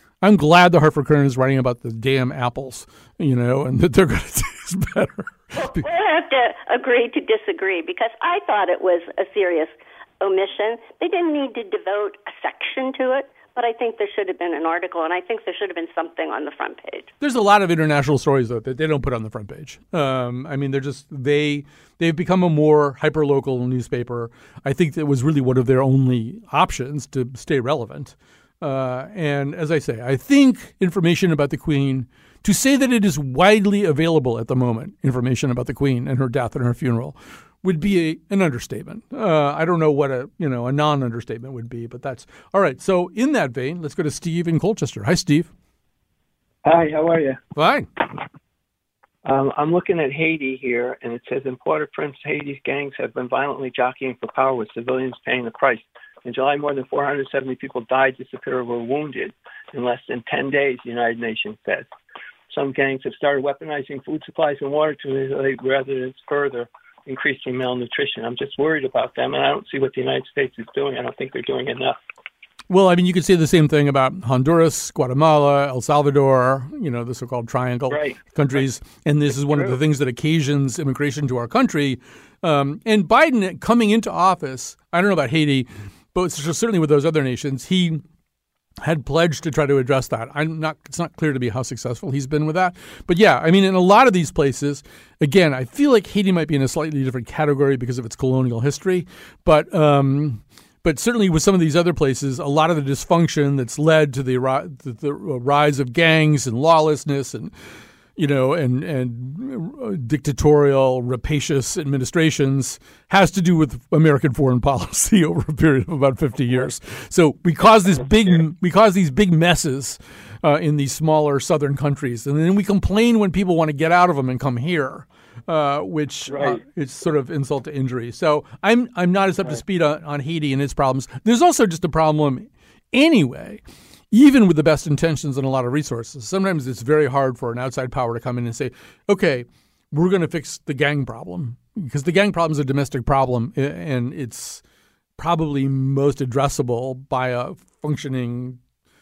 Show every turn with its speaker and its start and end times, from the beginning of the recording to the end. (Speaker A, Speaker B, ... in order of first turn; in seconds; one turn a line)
Speaker A: 0.2-5.8
Speaker B: 5.6-17.1
Speaker A: 17.2-45.5
Speaker C: 46.6-47.4
Speaker A: 47.5-47.9
Speaker C: 49.2-61.9
Speaker C: 62.5-72.0
Speaker A: 72.7-88.0
Speaker C: 77.9-78.6
Speaker C: 79.5-79.8
Speaker A: 88.8-107.5
Speaker A: 108.2-144.6
Speaker C: 126.3-126.6
Speaker A: 145.2-148.6